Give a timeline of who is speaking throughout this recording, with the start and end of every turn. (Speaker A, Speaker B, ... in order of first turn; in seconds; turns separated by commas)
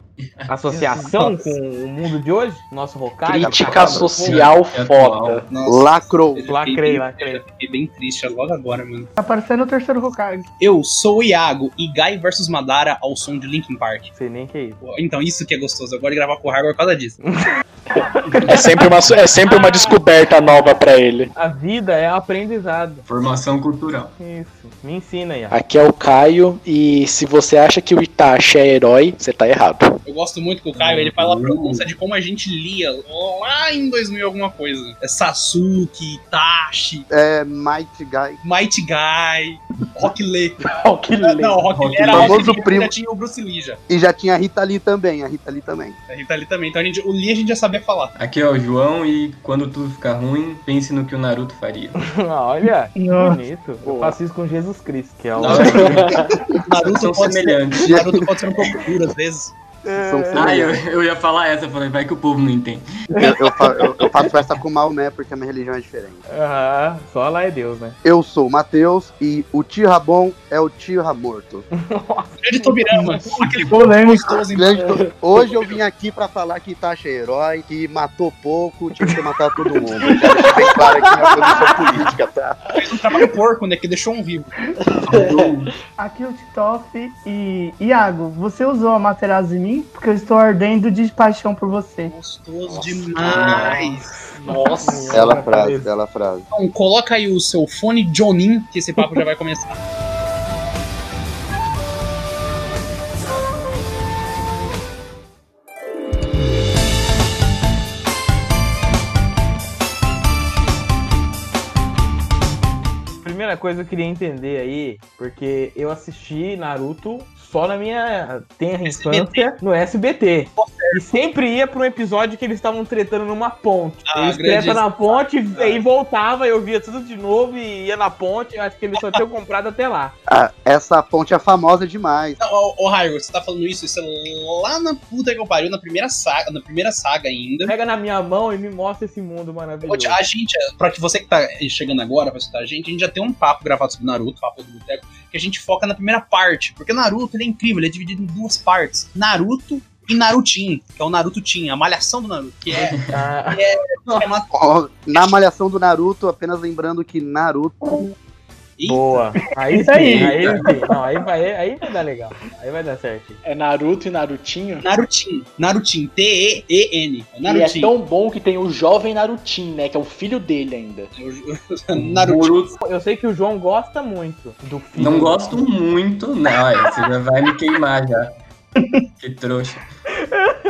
Speaker A: 0.2-0.5, Speaker B: 0.5-4.1, Speaker C: 0.8-1.2, Speaker D: 3.2-5.5, Speaker E: 3.4-4.1, Speaker A: 4.1-5.5, Speaker F: 4.2-4.4, Speaker F: 5.5-9.1, Speaker E: 5.6-6.5, Speaker B: 6.5-7.4, Speaker C: 9.2-10.4, Speaker F: 10.6-14.1, Speaker B: 14.1-14.8, Speaker F: 14.8-17.2, Speaker B: 17.2-18.9, Speaker D: 18.4-21.3, Speaker B: 19.4-20.0, Speaker B: 21.3-23.0, Speaker A: 23.1-24.1, Speaker B: 24.2-25.6, Speaker D: 25.5-30.0, Speaker F: 30.0-37.1, Speaker A: 30.8-31.9, Speaker E: 37.1-38.4, Speaker F: 38.4-40.6, Speaker D: 40.7-41.6, Speaker F: 41.2-43.8, Speaker A: 41.7-42.6, Speaker E: 42.1-42.9, Speaker E: 43.9-46.0, Speaker F: 46.1-48.1, Speaker A: 48.1-52.0, Speaker B: 52.0-56.1, Speaker C: 52.9-53.4, Speaker D: 53.8-54.2, Speaker F: 55.4-56.0, Speaker A: 55.4-56.2, Speaker D: 55.7-56.2, Speaker F: 56.6-59.5, Speaker A: 56.8-58.0, Speaker E: 57.8-58.1, Speaker B: 59.8-60.7, Speaker E: 60.0-60.8, Speaker A: 60.3-62.8, Speaker B: 63.1-64.3, Speaker E: 63.2-66.2, Speaker B: 66.3-68.0, Speaker E: 68.0-71.7, Speaker B: 71.7-73.3, Speaker F: 72.4-74.8, Speaker A: 73.5-73.9, Speaker C: 73.7-74.4, Speaker E: 74.5-82.6, Speaker B: 80.0-80.6, Speaker F: 82.8-84.5, Speaker A: 85.1-85.7, Speaker D: 85.1-85.3, Speaker C: 86.0-92.1, Speaker F: 92.0-94.1, Speaker E: 92.7-93.8, Speaker B: 93.4-95.9, Speaker D: 94.3-95.3, Speaker E: 95.1-96.5, Speaker F: 96.5-99.8, Speaker B: 113.2-130.1, Speaker F: 118.9-119.5, Speaker F: 120.6-121.0, Speaker F: 124.1-125.8, Speaker F: 128.9-129.2, Speaker E: 130.3-132.4, Speaker F: 132.4-137.7, Speaker B: 137.7-140.2, Speaker F: 139.8-153.0, Speaker A: 152.7-153.2, Speaker B: 153.1-154.3, Speaker F: 153.5-154.5, Speaker E: 154.5-157.8, Speaker F: 158.8-159.4, Speaker B: 158.8-163.4, Speaker C: 159.4-161.0, Speaker A: 159.9-160.7, Speaker D: 163.4-164.9, Speaker F: 164.8-167.9, Speaker D: 167.4-171.1, Speaker F: 171.2-172.7, Speaker A: 171.9-172.7, Speaker B: 172.8-175.6, Speaker A: 174.9-178.3, Speaker C: 178.8-179.0, Speaker A: 179.2-179.9